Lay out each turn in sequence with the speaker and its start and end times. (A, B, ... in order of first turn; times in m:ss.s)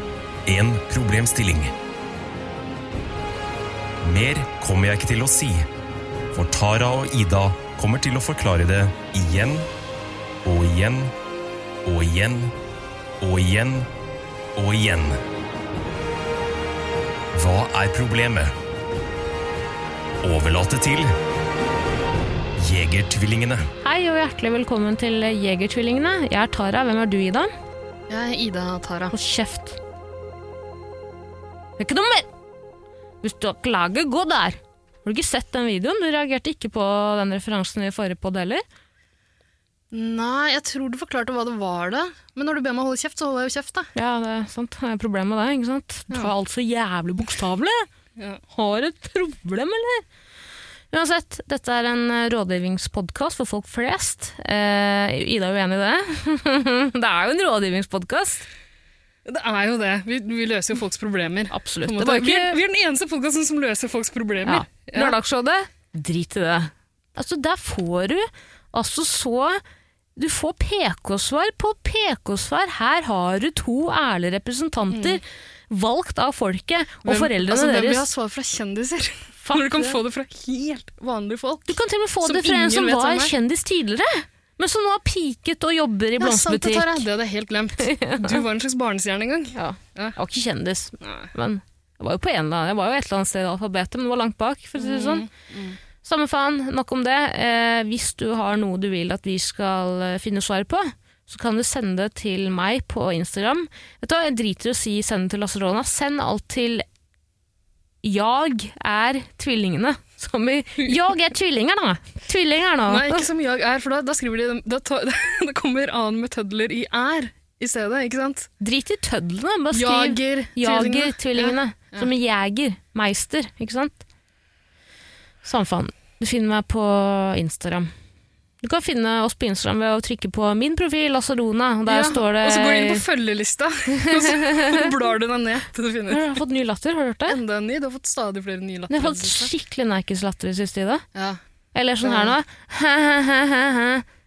0:00.5-0:01.7 A
0:04.0-0:05.6 A
0:06.3-0:09.7 A
0:10.4-0:11.1 A
0:11.8-0:12.5 A
0:13.2-0:13.9 A
0:14.6-0:15.2 A
0:17.3-0:18.5 A
0:20.2-0:21.1 A
0:22.6-0:23.7 A
0:23.8-0:27.5 B
0:28.1-0:29.1 C
0:29.1-0:29.8 B
0:31.8-0:32.3 B
0:33.2-0:38.6 B
0:39.9-0:43.9 C
0:44.0-0:47.9 B
0:48.2-0:48.4 C
0:48.5-0:50.0 B
0:50.9-0:58.5 B
0:59.3-1:05.2 C
1:01.5-1:02.6 B
1:04.4-1:09.6 B
1:10.2-1:18.1 B
1:14.9-1:15.2 C
1:17.0-1:23.4 C
1:19.4-1:20.0 B
1:21.7-1:27.0 B
1:26.2-1:30.2 C
1:27.8-1:28.4 B
1:29.6-1:35.3 B
1:31.0-1:31.3 C
1:34.8-1:35.8 C
1:36.0-1:46.8 B
1:48.0-1:53.3 B
1:52.9-1:58.5 C
1:58.6-2:04.0 B
1:59.7-2:02.1 C
2:05.4-2:07.9 B
2:08.6-2:13.0 B
2:11.9-2:16.4 C
2:13.9-2:14.9 B
2:16.1-2:17.4 B
2:17.3-2:19.5 C
2:18.9-2:21.0 B
2:21.1-2:21.4 C
2:21.7-2:24.0 B
2:22.0-2:22.4 C